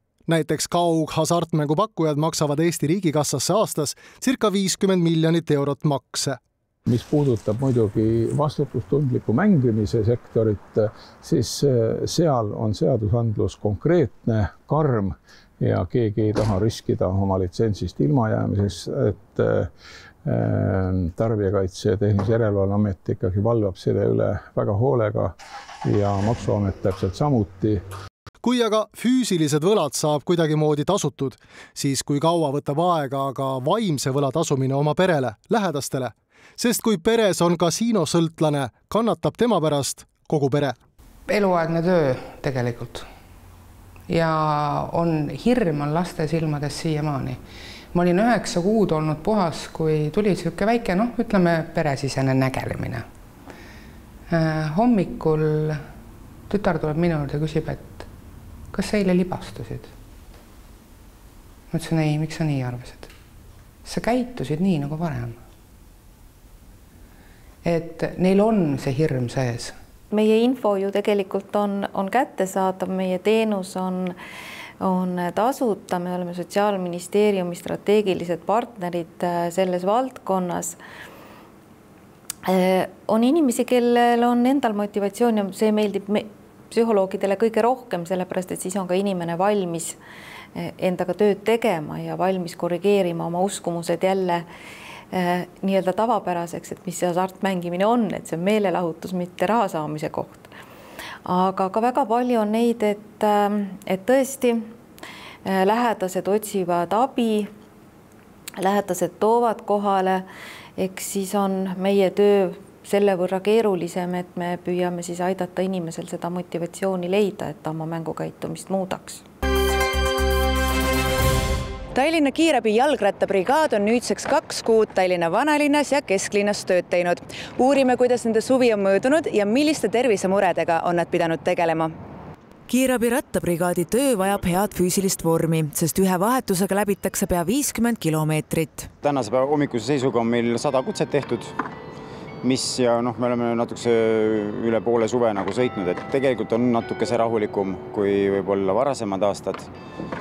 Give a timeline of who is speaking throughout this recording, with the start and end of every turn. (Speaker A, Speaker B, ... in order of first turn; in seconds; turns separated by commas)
Speaker A: 0.3-6.4, Speaker B: 6.9-19.7, Speaker B: 20.2-25.3, Speaker B: 25.8-27.8, Speaker A: 28.4-40.8, Speaker C: 41.3-43.1, Speaker C: 44.1-47.4, Speaker C: 47.9-53.1, Speaker C: 54.3-55.8, Speaker C: 56.5-58.0, Speaker C: 58.7-59.9, Speaker C: 61.7-63.1, Speaker C: 63.8-65.4, Speaker C: 67.6-69.8, Speaker D: 70.1-74.2, Speaker D: 74.8-80.8, Speaker D: 82.5-90.0, Speaker D: 90.5-94.5, Speaker D: 95.1-100.5, Speaker D: 101.2-104.7, Speaker D: 105.4-107.5, Speaker D: 108.6-119.2, Speaker E: 121.9-131.9, Speaker E: 132.7-138.9, Speaker F: 139.0-141.5, Speaker F: 142.4-149.7